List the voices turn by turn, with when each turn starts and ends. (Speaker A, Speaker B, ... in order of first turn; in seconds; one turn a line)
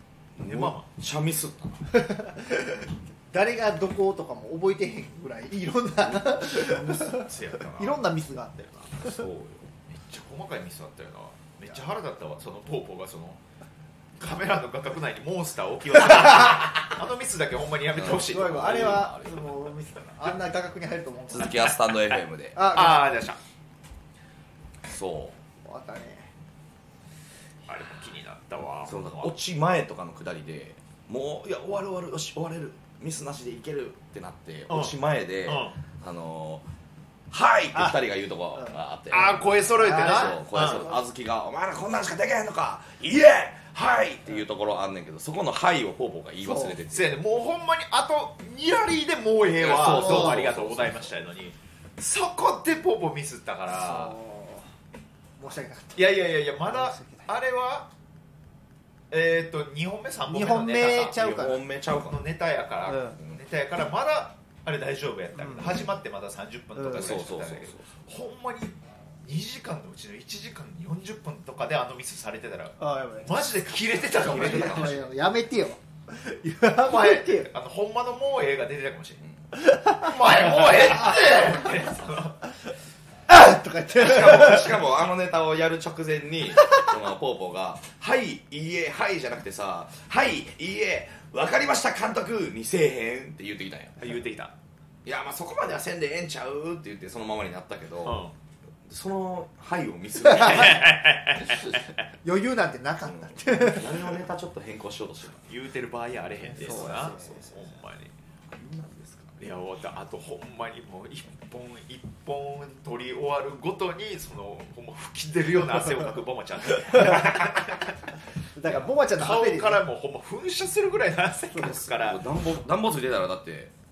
Speaker A: 0.4-2.0
Speaker B: 0.4-0.9
Speaker C: 1.9-9.2
Speaker A: 6.0-7.0
Speaker B: 7.0-8.1
Speaker A: 9.0-9.7
Speaker B: 9.9-13.4
Speaker B: 14.2-19.0
Speaker A: 17.9-19.6
Speaker C: 18.0-21.8
Speaker A: 21.3-22.7
Speaker B: 21.4-23.4
Speaker C: 22.6-23.2
Speaker A: 24.8-25.4
Speaker C: 25.6-26.3
Speaker B: 27.7-29.3
Speaker A: 28.9-36.6
Speaker B: 34.7-35.8
Speaker A: 37.3-47.2
Speaker B: 39.1-40.9
Speaker C: 39.3-41.0
Speaker C: 46.4-46.8
Speaker B: 46.9-54.2
Speaker A: 49.6-51.1
Speaker C: 49.9-50.5
Speaker C: 53.7-54.7
Speaker C: 55.4-57.3
Speaker B: 56.0-57.9
Speaker B: 59.1-61.2
Speaker C: 60.3-61.6
Speaker A: 61.0-62.2
Speaker B: 62.1-75.0
Speaker C: 62.9-63.2
Speaker C: 65.4-65.8
Speaker A: 65.6-65.9
Speaker C: 66.8-67.2
Speaker A: 66.9-67.9
Speaker C: 72.8-73.4
Speaker A: 74.1-75.0
Speaker C: 74.2-77.5
Speaker B: 76.8-79.2
Speaker C: 79.5-81.9
Speaker B: 79.9-82.4
Speaker C: 83.3-84.8
Speaker A: 84.0-94.0
Speaker C: 86.6-86.9
Speaker B: 94.0-94.5
Speaker A: 95.0-98.2
Speaker B: 98.0-98.3
Speaker A: 98.8-101.0
Speaker C: 100.3-100.8
Speaker B: 100.3-101.9
Speaker C: 102.2-104.2
Speaker A: 103.0-105.5
Speaker B: 105.5-108.1
Speaker A: 106.4-107.5
Speaker C: 106.5-107.5
Speaker A: 108.5-109.4
Speaker B: 109.4-118.0
Speaker C: 116.9-117.4
Speaker C: 118.5-119.8
Speaker B: 118.7-122.2
Speaker A: 121.6-123.7